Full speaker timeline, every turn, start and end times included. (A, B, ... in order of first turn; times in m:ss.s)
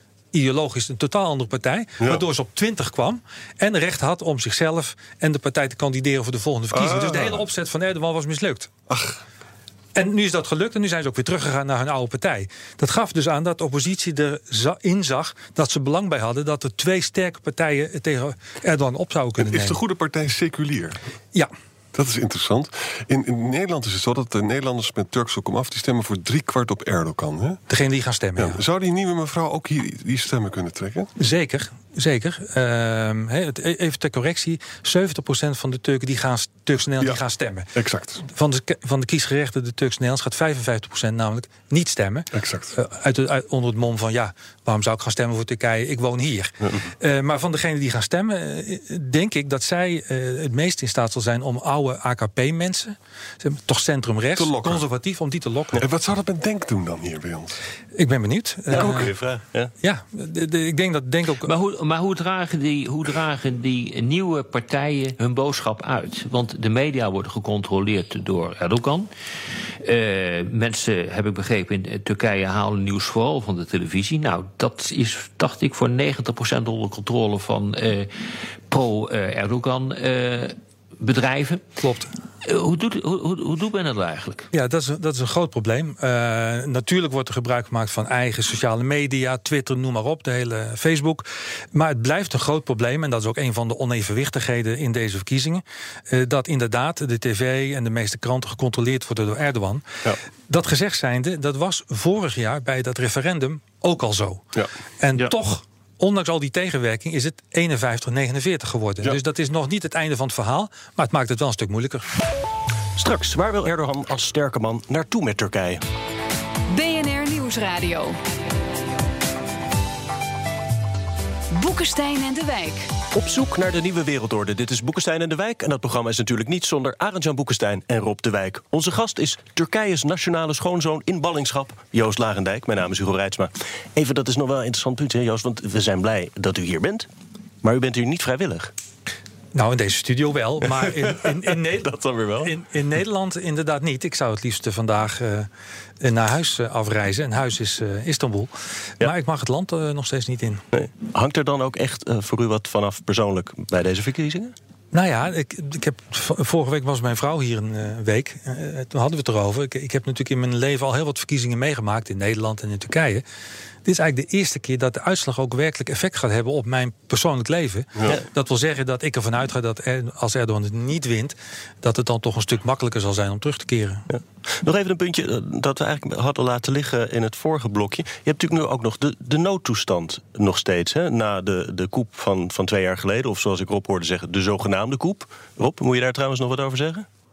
0:00.3-0:08.7 A
0:06.7-0:07.4 B
0:08.9-0:09.2 B
0:10.0-0:19.8 A
0:19.4-0:21.0 B
0:21.9-0:27.6 B
0:27.7-0:28.6 A
0:28.4-0:31.1 B
0:31.2-0:37.7 A
0:37.8-0:38.2 B
0:38.2-0:55.8 A
0:42.3-0:42.7 B
0:54.4-0:54.8 B
0:55.8-0:57.6 B
0:58.0-0:59.1 A
0:58.7-0:59.7 C
0:59.8-1:01.5 A
1:01.4-1:09.1 D
1:09.8-1:21.6 D
1:21.8-1:22.1 A
1:22.4-1:24.5 D
1:24.5-1:39.8 A
1:40.5-1:52.1 A
1:53.0-1:55.8 C
1:56.7-1:58.2 E
2:01.5-2:02.9 E
2:03.1-2:17.1 C
2:17.6-2:18.7 C
2:19.5-2:25.5 A
2:20.8-2:21.2 C
2:21.8-2:22.5 C
2:26.0-2:30.6 A
2:30.7-2:34.6 C
2:34.9-2:43.2 A
2:43.8-2:54.1 A
2:54.1-3:07.1 C